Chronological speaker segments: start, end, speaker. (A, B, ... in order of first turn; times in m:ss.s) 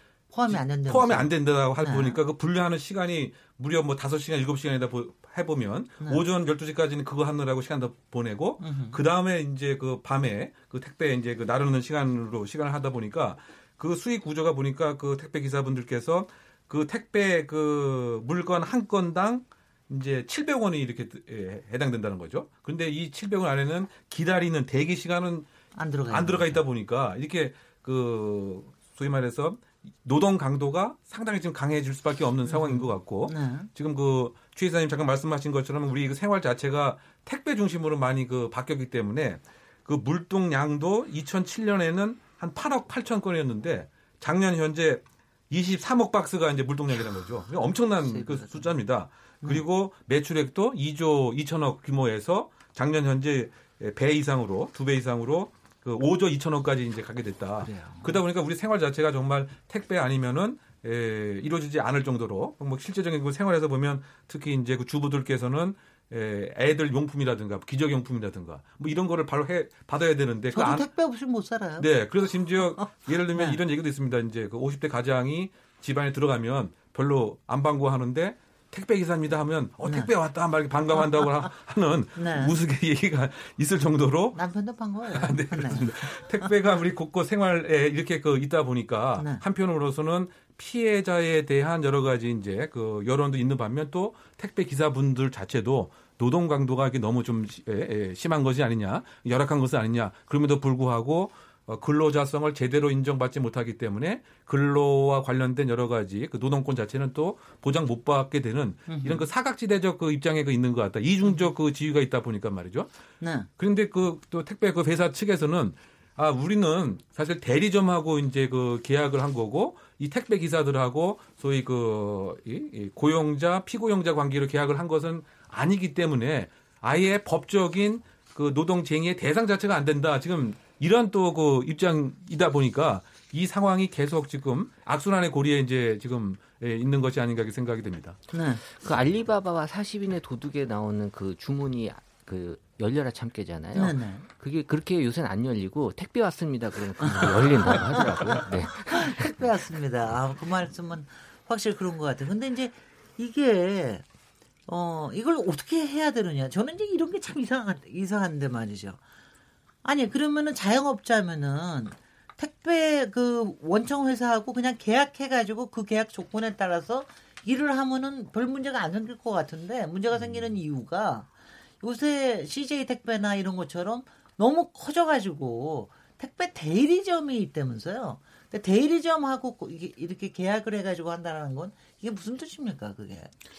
0:00.3-0:02.2 A
0:00.5-0:25.5 B
0:08.6-0:09.0 A
0:25.7-0:26.6 A
0:26.1-1:10.9 B
0:32.4-0:33.7 A
0:48.0-0:48.7 A
0:57.6-0:58.2 A
1:10.5-1:11.9 A
1:11.8-1:24.4 B
1:12.6-1:13.6 A
1:19.8-1:20.1 A
1:22.2-1:22.6 A
1:24.3-1:26.2 A
1:25.1-1:52.9 B
1:29.2-1:29.4 A
1:48.9-1:49.3 A
1:51.2-1:51.5 A
1:53.2-1:53.5 A
1:53.6-2:18.2 B
2:18.3-2:18.6 A
2:18.7-2:29.4 C
2:23.7-2:24.3 A
2:27.0-2:34.0 A
2:34.7-2:39.0 A
2:39.8-3:03.3 A